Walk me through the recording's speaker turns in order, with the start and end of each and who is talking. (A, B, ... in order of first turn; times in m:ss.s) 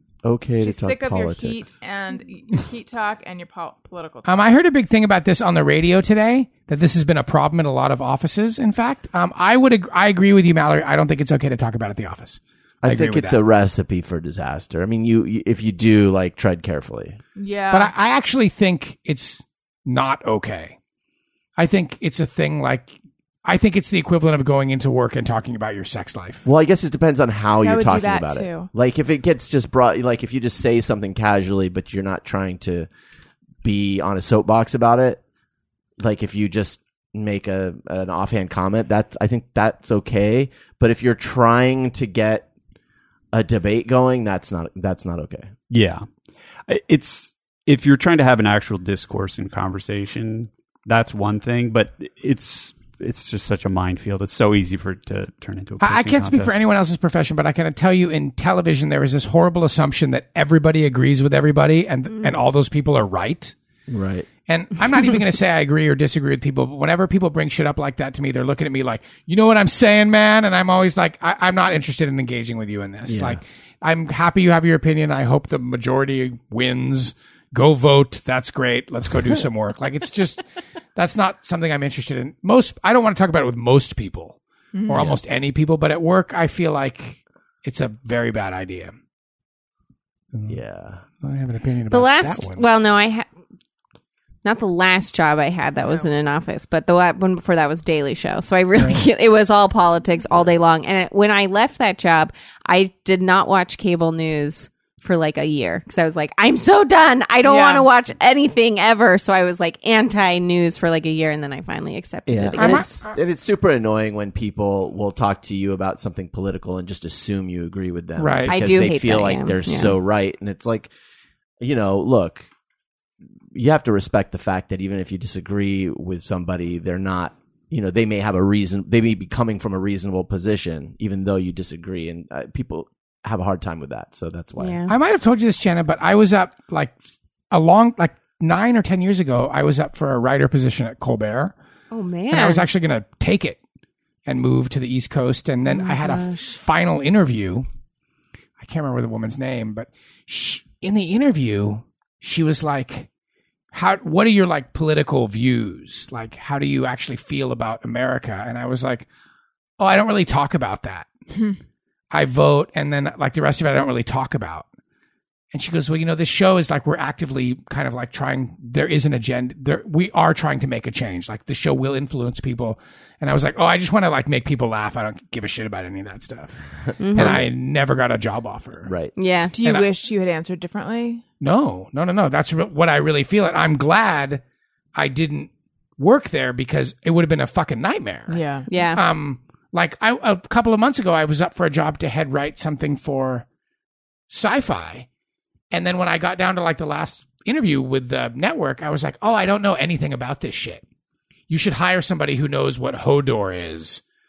0:00.2-0:01.7 A
0:00.6-0:04.5 B
0:04.2-0:13.4 C
0:12.8-0:17.2 A
0:17.4-0:17.9 B
0:17.7-0:20.8 C
0:21.6-0:22.9 C
0:23.4-0:26.5 C
0:26.4-0:32.9 A
0:27.6-0:28.7 B
0:33.6-0:35.2 A
0:36.0-0:42.5 A
0:43.3-0:45.5 A
0:45.7-0:46.0 D
0:46.7-0:56.6 D
0:55.8-1:03.6 C
1:03.9-1:04.3 A
1:04.5-1:20.4 C
1:13.1-1:13.4 A
1:21.0-1:29.0 C
1:24.7-1:25.2 B
1:30.3-1:30.6 C
1:30.5-1:31.0 A
1:31.1-1:32.6 C
1:31.9-1:33.3 E
1:34.4-1:52.9 E
1:47.4-1:47.9 B
1:52.3-2:00.9 A
1:52.6-1:53.1 C
1:58.2-1:58.6 C
1:58.5-2:00.0 E
2:01.6-2:02.5 A
2:03.5-2:14.8 A
2:14.6-2:15.0 E
2:14.9-2:17.0 C
2:17.5-2:21.5 C
2:21.9-2:22.7 E
2:22.3-2:23.6 C
2:24.3-2:27.7 C
2:25.7-2:26.6 E
2:28.6-2:33.1 C
2:33.7-2:39.1 C
2:39.8-2:41.1 C
2:41.3-2:41.6 B
2:42.1-2:44.7 C
2:45.5-2:56.6 C
2:57.0-2:57.5 E
2:57.1-2:57.4 A
2:57.1-2:59.0 C
2:58.9-2:59.1 A
2:59.1-2:59.6 E
2:59.5-3:01.2 B
3:01.4-3:04.4 C
3:05.0-3:13.5 C
3:08.3-3:08.7 B
3:08.7-3:09.0 E
3:14.3-3:15.1 C
3:15.7-3:20.8 C
3:21.5-3:24.0 C